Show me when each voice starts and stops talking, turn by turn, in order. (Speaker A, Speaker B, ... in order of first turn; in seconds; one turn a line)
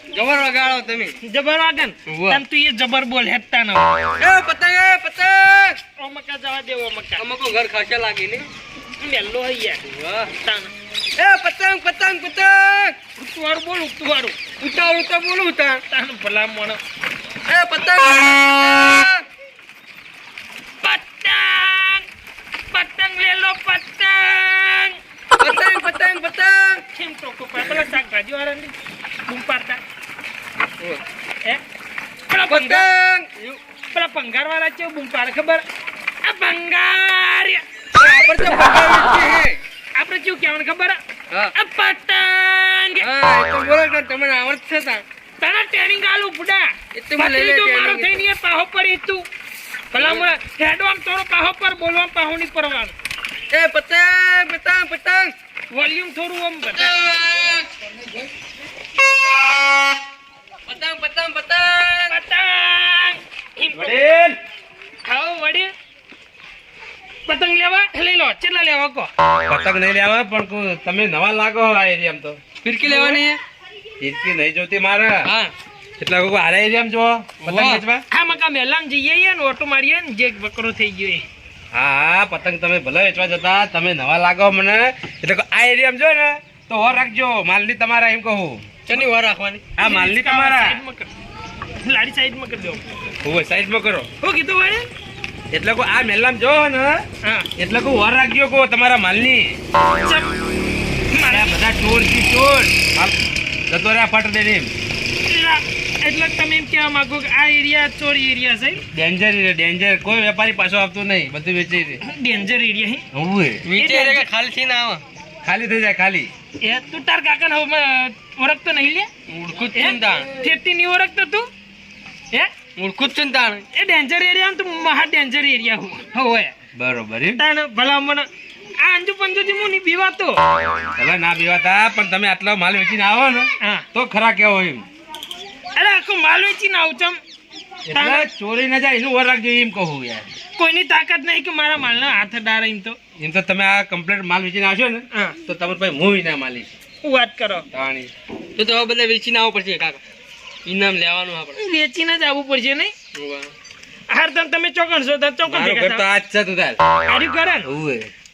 Speaker A: 0.1-1.1
Speaker B: 1.2-4.1
Speaker A: 2.1-2.4
Speaker A: 4.2-5.8
Speaker B: 6.0-7.2
Speaker A: 7.2-8.5
Speaker B: 9.0-9.8
Speaker A: 9.9-10.3
Speaker B: 10.3-10.7
Speaker A: 11.2-13.0
Speaker B: 13.2-14.4
Speaker A: 14.6-15.8
Speaker B: 15.9-16.8
Speaker A: 17.5-19.2
Speaker B: 20.8-22.1
Speaker B: 22.7-25.0
Speaker A: 25.4-26.8
Speaker B: 26.9-28.7
Speaker B: 29.3-29.8
Speaker B: 32.3-32.9
Speaker A: 32.5-33.6
Speaker B: 33.9-35.6
Speaker B: 36.2-37.6
Speaker A: 38.0-39.6
Speaker B: 40.0-41.0
Speaker B: 41.5-43.1
Speaker A: 43.0-45.0
Speaker B: 45.4-49.2
Speaker A: 47.0-48.2
Speaker B: 49.9-52.9
Speaker A: 50.0-50.3
Speaker A: 53.5-55.3
Speaker B: 55.7-56.9
Speaker A: 56.8-57.7
Speaker A: 60.7-62.1
Speaker B: 62.1-64.0
Speaker C: 63.7-64.4
Speaker B: 65.1-65.7
Speaker B: 67.3-69.1
Speaker C: 69.5-72.4
Speaker A: 72.6-73.4
Speaker B: 72.8-73.2
Speaker C: 74.0-75.3
Speaker A: 75.2-75.5
Speaker C: 76.0-78.0
Speaker A: 77.4-77.8
Speaker B: 78.1-81.3
Speaker C: 81.7-88.6
Speaker A: 88.9-89.7
Speaker C: 89.8-90.8
Speaker B: 89.8-91.1
Speaker B: 91.8-92.8
Speaker C: 93.2-94.1
Speaker B: 94.2-94.9
Speaker C: 95.5-97.0
Speaker C: 97.6-99.6
Speaker B: 100.0-100.3
Speaker B: 101.1-101.6
Speaker C: 101.3-103.2
Speaker C: 103.7-104.7
Speaker B: 105.3-108.8
Speaker C: 108.9-112.0
Speaker B: 112.0-113.1
Speaker C: 113.1-113.7
Speaker A: 113.7-115.0
Speaker B: 113.8-114.2
Speaker C: 115.4-116.3
Speaker B: 116.6-119.1
Speaker A: 119.3-120.4
Speaker B: 119.7-121.5
Speaker A: 122.8-123.7
Speaker B: 123.7-126.5
Speaker C: 126.8-127.4
Speaker B: 127.4-128.3
Speaker B: 128.8-130.4
Speaker C: 131.0-134.9
Speaker B: 133.6-133.9
Speaker B: 135.8-137.2
Speaker C: 137.9-140.3
Speaker B: 137.9-138.3
Speaker B: 140.6-143.0
Speaker C: 143.2-146.7
Speaker B: 147.0-147.7
Speaker C: 147.7-148.1
Speaker A: 148.6-150.0
Speaker A: 150.7-151.6
Speaker B: 151.6-152.9
Speaker A: 153.1-153.5
Speaker B: 154.1-156.1
Speaker C: 155.4-156.8
Speaker B: 157.1-157.7
Speaker C: 157.7-158.1